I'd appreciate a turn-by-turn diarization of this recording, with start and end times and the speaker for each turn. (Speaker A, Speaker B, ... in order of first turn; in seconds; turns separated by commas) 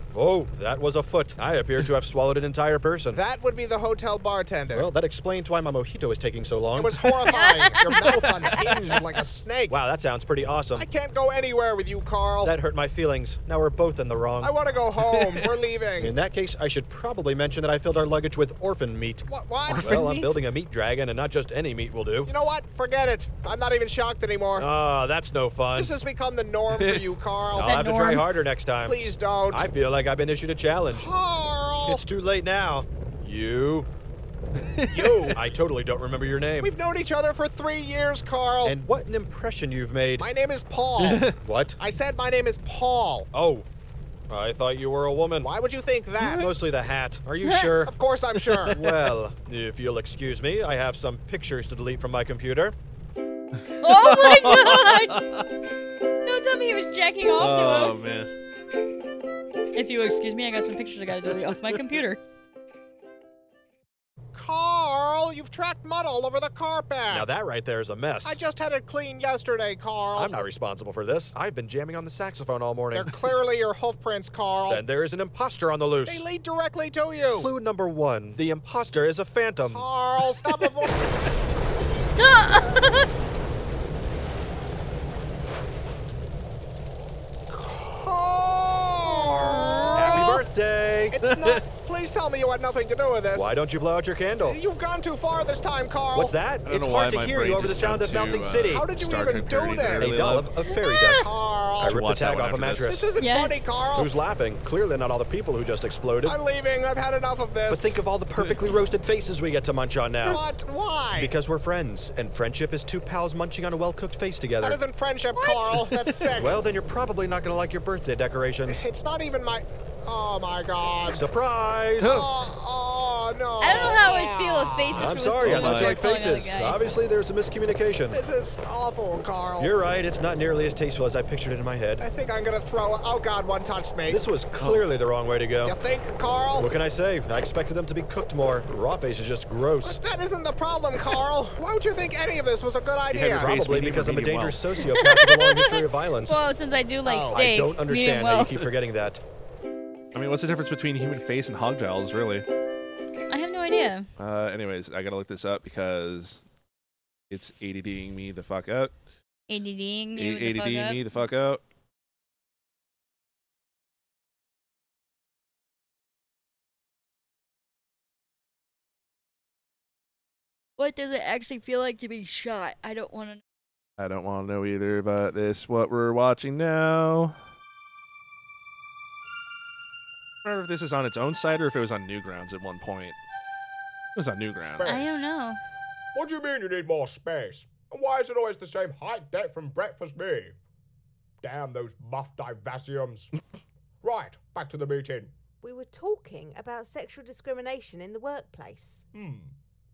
Speaker A: 0.1-3.2, Speaker B: 3.1-4.9, Speaker A: 4.7-8.8, Speaker B: 6.8-9.8, Speaker C: 7.3-8.1, Speaker A: 9.7-10.9, Speaker B: 10.7-12.6, Speaker A: 12.4-14.6, Speaker B: 14.4-16.2, Speaker D: 15.0-15.5, Speaker A: 16.0-22.3, Speaker B: 19.3-20.2, Speaker D: 19.7-20.3, Speaker B: 22.3-24.7, Speaker A: 24.6-26.0, Speaker B: 25.8-28.0, Speaker D: 26.7-27.1, Speaker A: 27.5-31.1, Speaker C: 27.6-28.3, Speaker B: 28.8-29.7, Speaker B: 30.9-32.0, Speaker A: 31.9-33.9, Speaker D: 34.6-35.2, Speaker B: 34.9-35.4, Speaker A: 35.2-36.7, Speaker B: 36.6-38.8, Speaker A: 38.6-40.3, Speaker B: 40.2-43.3, Speaker D: 41.0-41.4, Speaker A: 41.3-41.8, Speaker A: 43.3-43.7, Speaker A: 44.3-45.5, Speaker B: 45.4-46.5, Speaker A: 46.2-48.0, Speaker B: 47.8-48.8, Speaker A: 48.7-52.8, Speaker C: 53.8-55.2, Speaker D: 53.8-55.5, Speaker C: 56.3-57.9, Speaker D: 57.4-58.3, Speaker C: 59.8-62.2, Speaker B: 64.3-67.3, Speaker A: 67.1-68.4, Speaker B: 68.2-70.4, Speaker A: 70.2-73.2, Speaker B: 72.9-74.8, Speaker A: 74.7-76.3, Speaker B: 76.0-77.5, Speaker A: 77.3-79.9, Speaker B: 79.7-81.0, Speaker C: 82.2-83.1, Speaker B: 87.5-90.4, Speaker C: 89.4-90.2, Speaker A: 89.9-91.3, Speaker B: 91.1-93.6, Speaker D: 91.2-91.6, Speaker A: 93.3-94.6, Speaker B: 94.4-96.4, Speaker A: 96.1-98.9, Speaker D: 96.7-100.5, Speaker B: 98.7-102.2, Speaker A: 99.8-103.1, Speaker C: 100.7-101.2, Speaker D: 101.8-102.9, Speaker B: 102.8-104.2, Speaker C: 103.2-103.6, Speaker A: 103.9-106.4, Speaker B: 106.2-108.0, Speaker A: 107.7-110.5, Speaker B: 110.2-111.3, Speaker A: 111.2-114.8, Speaker B: 114.6-116.7, Speaker C: 115.4-115.7, Speaker D: 115.7-116.3, Speaker A: 116.3-118.8, Speaker B: 118.7-121.2, Speaker A: 121.1-122.3, Speaker B: 122.0-125.1, Speaker C: 123.6-126.8, Speaker A: 125.0-128.2, Speaker D: 125.4-126.0, Speaker B: 128.1-129.8, Speaker A: 129.6-132.0, Speaker B: 132.0-134.3, Speaker A: 134.1-135.8, Speaker D: 134.6-134.9, Speaker B: 135.6-136.7, Speaker A: 136.6-140.0, Speaker B: 139.8-143.6, Speaker D: 143.1-144.6, Speaker A: 143.2-146.4, Speaker C: 144.8-148.6, Speaker B: 147.1-147.5, Speaker A: 147.3-149.2, Speaker D: 150.1-152.4, Speaker C: 153.3-154.1, Speaker D: 154.2-156.4, Speaker D: 157.3-158.9, Speaker C: 159.5-161.1, Speaker D: 160.2-161.6, Speaker C: 170.8-173.4, Speaker D: 174.0-177.4, Speaker D: 180.4-183.2, Speaker D: 184.2-185.0, Speaker E: 184.7-185.2, Speaker C: 184.8-185.6, Speaker E: 186.1-190.6, Speaker E: 191.4-193.3, Speaker E: 194.0-195.3, Speaker F: 195.6-199.1, Speaker E: 199.1-199.5